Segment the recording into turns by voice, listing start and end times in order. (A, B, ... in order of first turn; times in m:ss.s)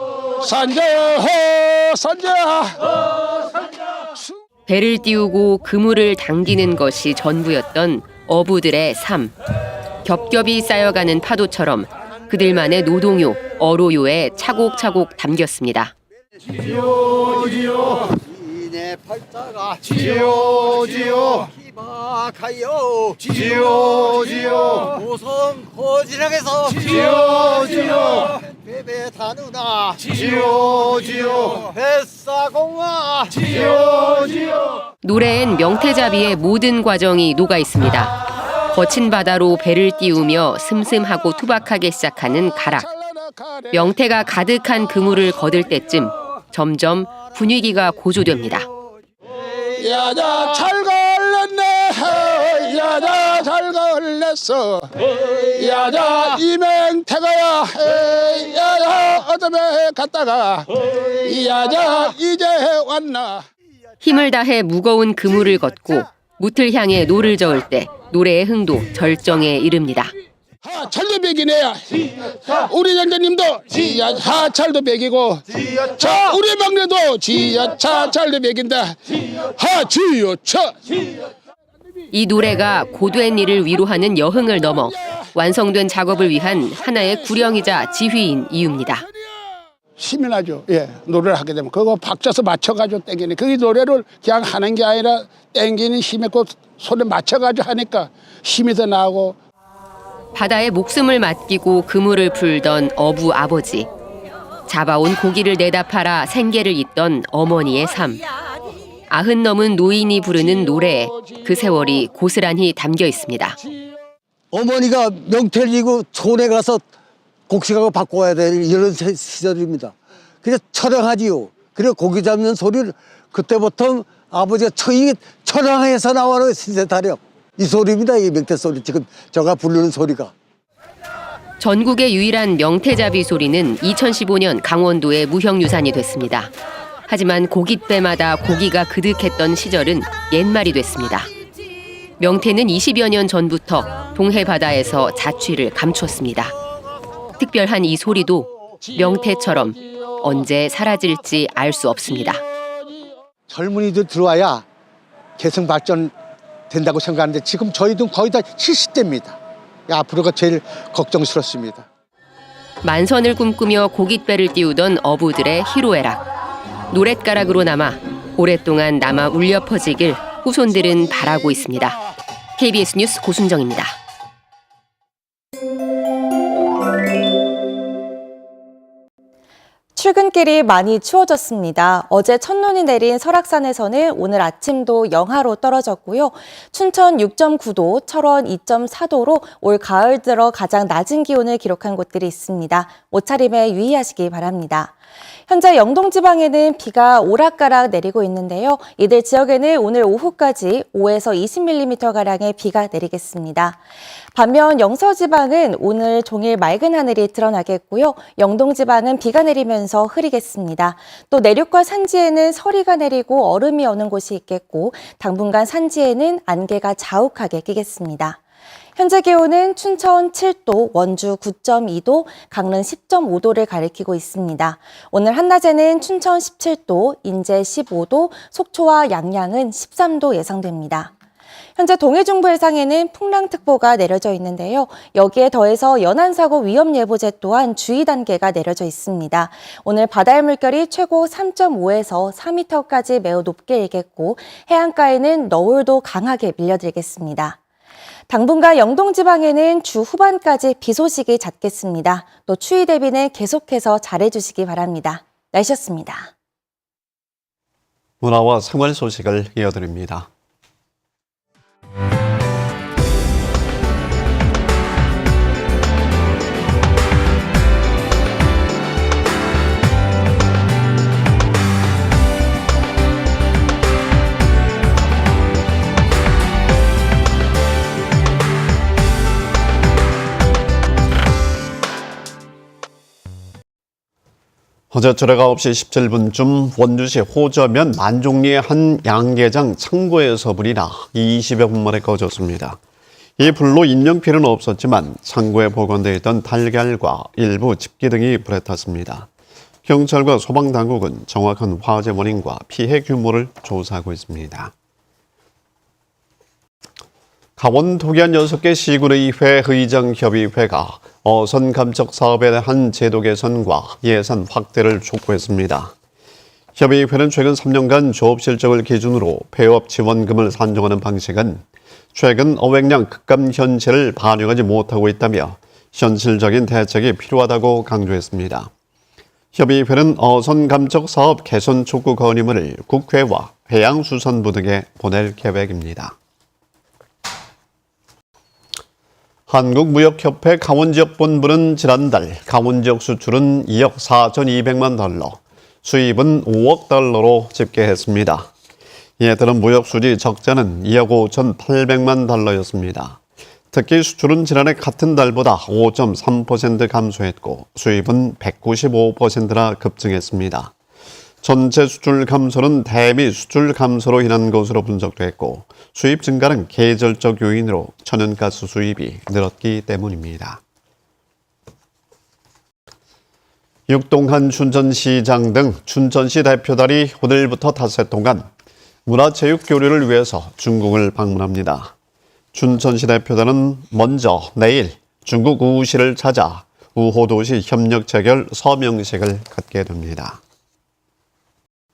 0:00.4-0:02.8 A
0:04.7-0:09.4 B
0:10.0-0:15.9 B
0:35.0-0:38.2 B
0:38.7-0:42.9 B
0:42.8-0:43.8 A
0:43.7-0:48.7 B
0:49.8-0:54.8 A
0:55.5-1:00.7 A
1:01.2-1:03.4 A
1:04.0-1:10.1 B
1:10.6-1:15.4 A
1:16.0-1:19.0 A
1:19.6-1:20.8 A
1:22.1-1:29.0 B
1:30.0-1:39.4 A
1:40.4-1:43.9 B
1:44.7-1:48.2 B
1:49.1-1:53.6 B
1:54.5-1:56.8 C
1:57.5-2:10.3 C
2:11.6-2:16.5 B
2:17.1-2:21.3 B
2:22.2-2:26.5 B
2:27.4-2:32.4 B
2:33.5-2:34.6 C
2:35.4-2:36.1 C
2:36.7-2:39.4 C
2:39.9-2:41.8 C
2:42.8-2:46.2 B
2:46.9-2:52.0 B
2:52.6-2:53.9 B
3:00.0-3:14.9 D
3:15.5-3:23.8 D
3:24.4-3:38.4 D
3:39.0-3:51.1 D
3:51.8-4:07.6 D
4:08.3-4:16.3 D
4:18.2-4:20.3 E
4:44.9-4:52.8 E
4:53.4-4:59.3 E
4:59.9-5:04.7 E
5:07.6-5:15.9 E
5:16.8-5:28.7 E
5:29.5-5:36.1 E
5:39.5-5:48.5 E
5:49.2-5:53.2 E
5:53.7-6:00.7 E
6:01.4-6:10.6 E
6:13.9-6:18.5 E
6:19.1-6:21.9 E
6:22.5-6:30.4 E